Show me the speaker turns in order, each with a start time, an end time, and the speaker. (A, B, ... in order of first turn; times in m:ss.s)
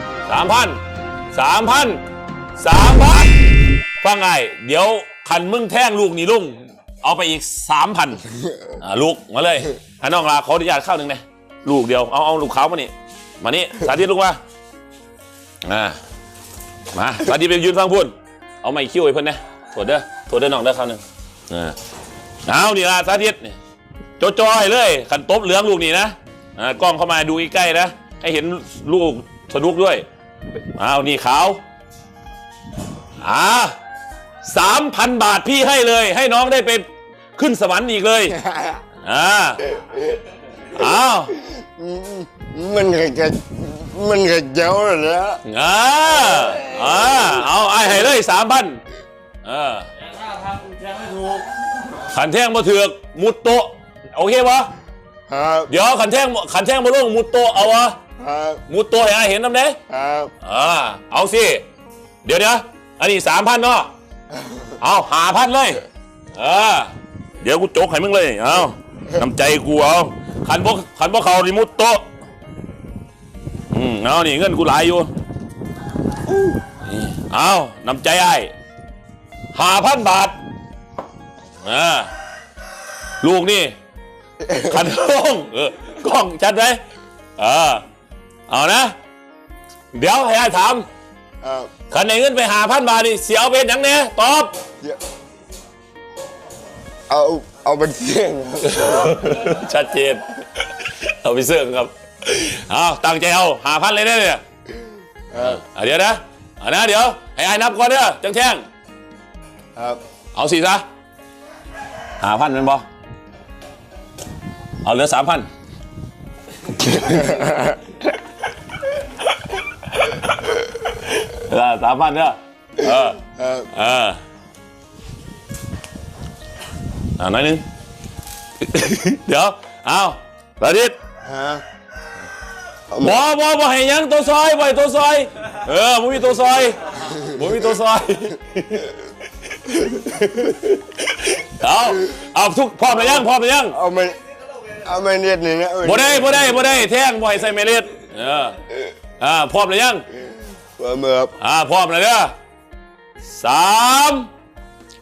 0:00.3-0:00.8 A
0:01.3-0:02.0 A
0:02.6-0:03.4 A
0:04.0-0:14.4 A
0:15.6-0:16.0 A
0:16.9-0:21.8 A
0:22.4-0:23.6 A
0:24.2-0:30.0 A
0:30.7-0:31.6 A
0:33.2-0:33.7 A
0:34.4-0:38.4 A
0:38.4-0:38.8 B
0:39.0-0:39.7 A
0:40.6-0:41.3 A
0:41.4-0:45.4 B
0:45.4-0:48.8 A
0:49.4-0:49.9 A
0:51.0-0:51.4 B
0:52.0-0:54.7 A
0:55.3-0:55.7 B
0:55.7-0:58.0 A
0:58.2-0:58.6 B
0:58.7-0:59.8 A
0:59.9-1:00.3 B
1:00.4-1:01.6 A
1:02.2-1:03.9 A
1:04.3-1:04.7 B
1:04.8-1:12.0 A
1:13.7-1:15.1 A
1:16.7-1:18.5 A
1:19.5-1:20.4 A
1:21.6-1:22.1 A
1:23.2-1:23.7 A
1:24.4-1:24.8 B
1:24.5-1:26.8 A
1:27.4-1:27.8 A
1:28.5-1:28.9 A
1:29.9-1:30.8 A
1:31.4-1:31.7 B
1:31.9-1:34.5 A
1:37.1-1:39.2 B
1:38.7-1:44.4 A
1:45.3-1:45.6 B
1:45.3-1:48.6 A
1:49.8-1:50.0 B
1:50.3-1:50.8 A
1:52.2-1:52.8 A
1:54.8-1:55.5 A
1:56.9-1:57.7 B
1:59.9-2:04.2 A
2:03.2-2:03.7 B
2:07.2-2:07.6 A
2:08.6-2:11.0 A
2:11.2-2:11.6 B
2:12.9-2:13.2 B
2:13.0-2:18.9 A
2:19.6-2:23.7 A
2:23.7-2:26.6 B
2:25.8-2:28.6 A
2:29.2-2:30.0 A
2:30.8-2:31.3 B
2:31.4-2:32.3 A
2:33.2-2:34.3 A